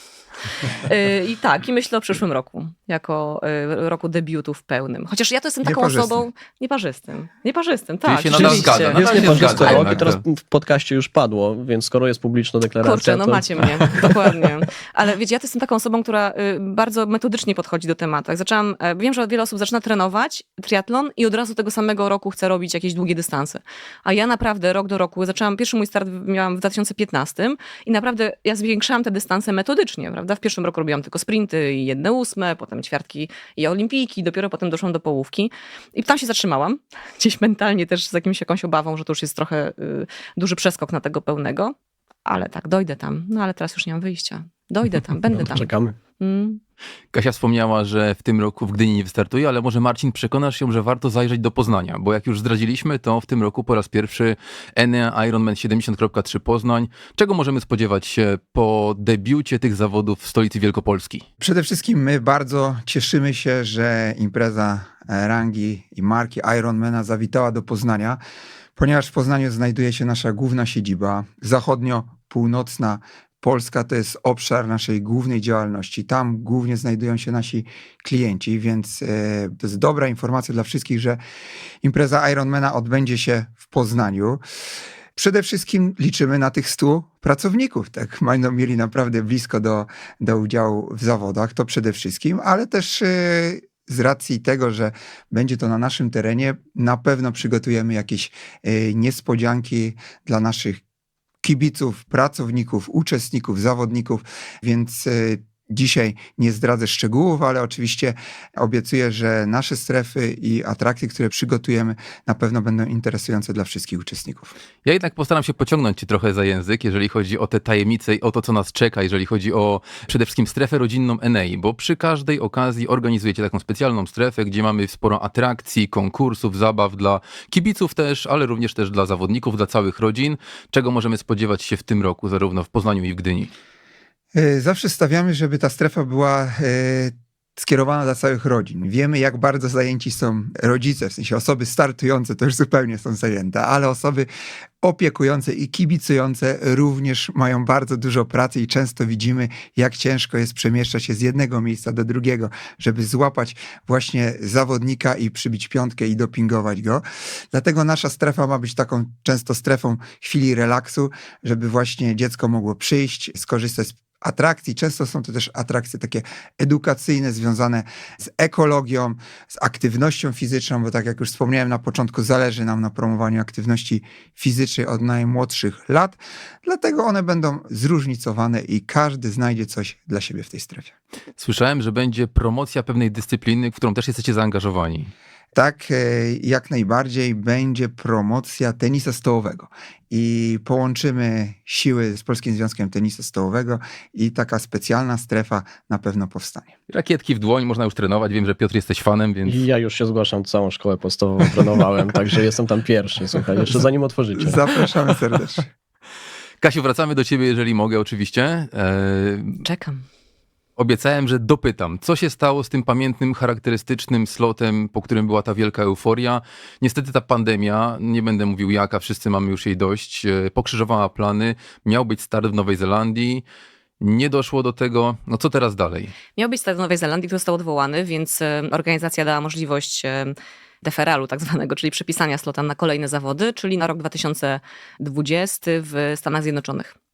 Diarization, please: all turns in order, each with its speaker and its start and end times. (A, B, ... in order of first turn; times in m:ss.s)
0:00.8-0:10.0 A
0:05.6-0:06.3 B
0:08.0-0:10.2 C
0:08.3-0:13.8 D
0:12.8-0:41.7 A
0:42.2-0:45.7 A
0:45.3-0:46.0 D
0:46.2-0:46.6 A
0:47.1-1:01.2 C
1:01.4-1:08.2 B
1:08.8-1:21.2 B
1:21.8-1:24.4 B
1:25.1-1:40.8 B
1:41.4-1:54.5 B
1:54.8-2:13.5 C
2:14.3-2:24.3 B
2:24.8-3:01.0 B
3:01.4-3:05.1 C
3:05.5-3:16.7 B
3:16.9-3:19.6 C
3:19.4-3:24.6 D
3:24.4-3:25.7 B
3:26.6-3:29.6 C
3:29.6-3:30.0 A
3:30.8-3:43.4 C
3:44.0-3:46.1 C
3:46.4-3:57.0 A